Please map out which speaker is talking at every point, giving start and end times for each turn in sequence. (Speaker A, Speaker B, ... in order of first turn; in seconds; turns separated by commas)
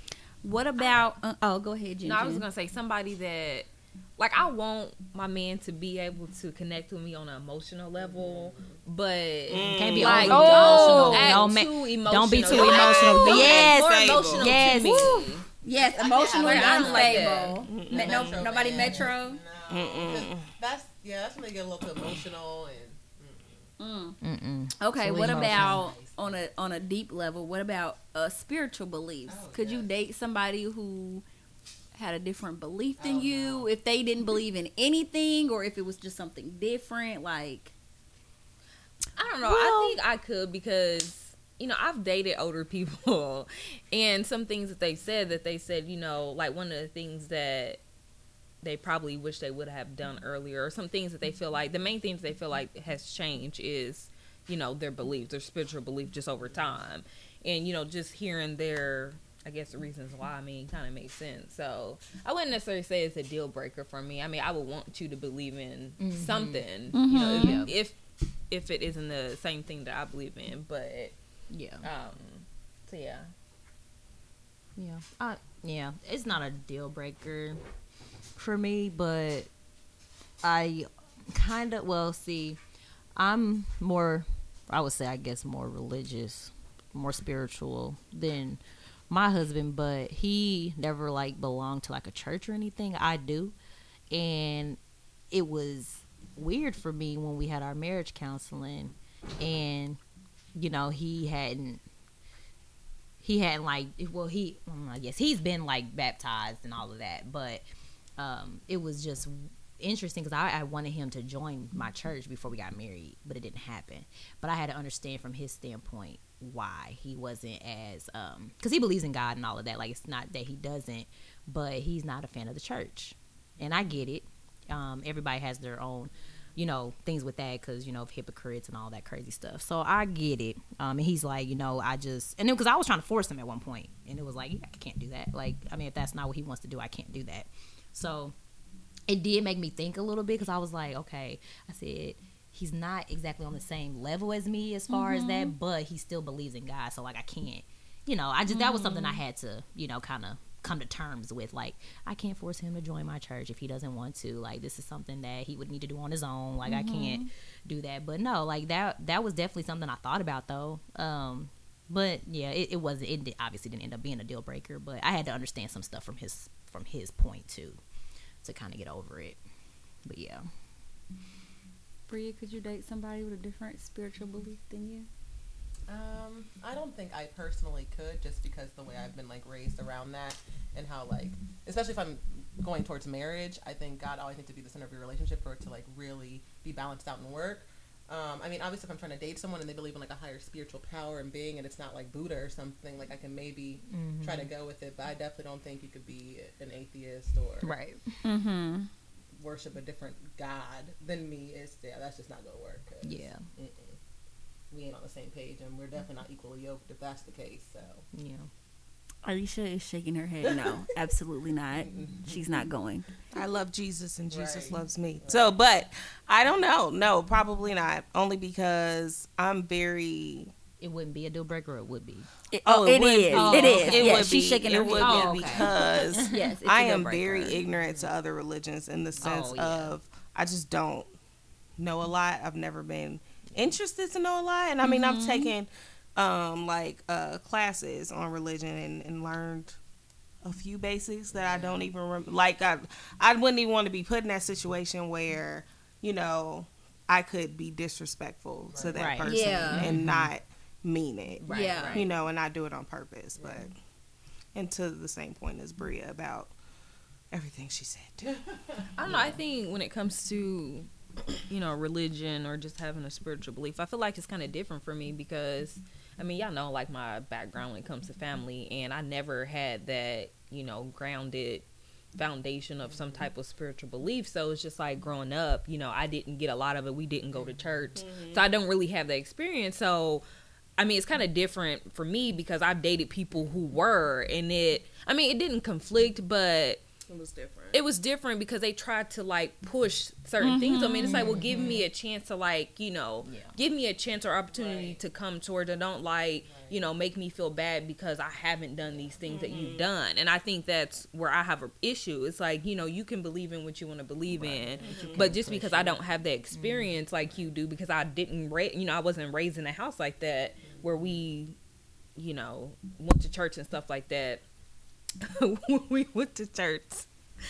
Speaker A: 0.4-2.5, Speaker B: 2.0-15.5, Speaker C: 8.0-8.8, Speaker D: 9.5-11.0, Speaker E: 9.6-15.2, Speaker A: 10.2-11.4, Speaker D: 12.5-14.6, Speaker A: 14.4-19.4, Speaker C: 15.6-23.7, Speaker B: 16.3-17.6, Speaker D: 17.6-18.5, Speaker D: 19.7-20.5, Speaker A: 23.8-24.2, Speaker E: 24.2-25.9, Speaker A: 24.8-31.2, Speaker C: 25.1-26.4, Speaker C: 29.3-29.9, Speaker A: 31.9-37.7, Speaker C: 33.0-33.7, Speaker B: 39.2-47.8, Speaker E: 39.5-40.0, Speaker B: 48.6-68.0, Speaker E: 66.0-66.7, Speaker A: 66.9-67.7, Speaker E: 67.2-67.7, Speaker B: 68.5-71.2, Speaker E: 71.5-71.8, Speaker B: 71.8-73.3, Speaker E: 74.8-77.6, Speaker E: 78.4-79.5, Speaker E: 80.4-82.6, Speaker E: 83.2-93.6, Speaker E: 94.1-94.8, Speaker E: 95.3-100.0, Speaker E: 100.5-101.8, Speaker E: 103.2-107.6, Speaker E: 108.2-138.3, Speaker E: 139.1-167.8, Speaker A: 144.9-145.6, Speaker A: 148.5-149.2, Speaker A: 156.7-157.3, Speaker E: 168.4-169.4, Speaker E: 170.1-170.4, Speaker A: 172.1-175.1, Speaker C: 175.9-197.7, Speaker E: 193.9-194.5, Speaker E: 197.6-198.0, Speaker A: 198.2-198.9, Speaker C: 199.4-204.0, Speaker E: 203.0-203.4, Speaker C: 204.7-208.1, Speaker E: 208.1-208.5, Speaker A: 209.2-213.1, Speaker C: 210.4-210.9, Speaker C: 211.7-212.7, Speaker D: 213.3-220.5, Speaker C: 214.3-215.5, Speaker E: 220.8-222.3, Speaker A: 222.5-227.6, Speaker D: 222.7-231.1, Speaker E: 223.3-224.3, Speaker E: 225.0-226.5, Speaker C: 227.7-228.1, Speaker E: 229.2-229.9, Speaker D: 231.8-239.8, Speaker A: 234.8-235.5, Speaker D: 240.4-253.7, Speaker C: 241.3-241.8, Speaker C: 248.7-249.2, Speaker E: 248.9-250.3, Speaker A: 249.2-249.9, Speaker A: 251.4-252.1, Speaker E: 251.5-251.9, Speaker B: 251.5-252.0, Speaker C: 253.4-253.7, Speaker D: 254.6-256.5, Speaker D: 257.3-258.3, Speaker C: 258.3-258.9, Speaker B: 259.0-280.2, Speaker E: 259.1-259.4, Speaker C: 272.8-273.3, Speaker C: 277.3-277.9, Speaker D: 278.0-278.4, Speaker B: 280.8-286.8, Speaker D: 287.1-287.8, Speaker B: 287.7-311.6, Speaker A: 290.4-291.4, Speaker E: 291.0-291.9, Speaker C: 291.5-291.8, Speaker E: 293.2-293.6, Speaker C: 294.5-295.0, Speaker C: 296.4-296.8, Speaker D: 299.3-299.9, Speaker E: 304.3-306.0, Speaker C: 304.8-305.8, Speaker D: 304.8-305.2, Speaker E: 306.5-307.0, Speaker C: 310.6-311.1, Speaker B: 312.2-314.4, Speaker B: 315.2-317.1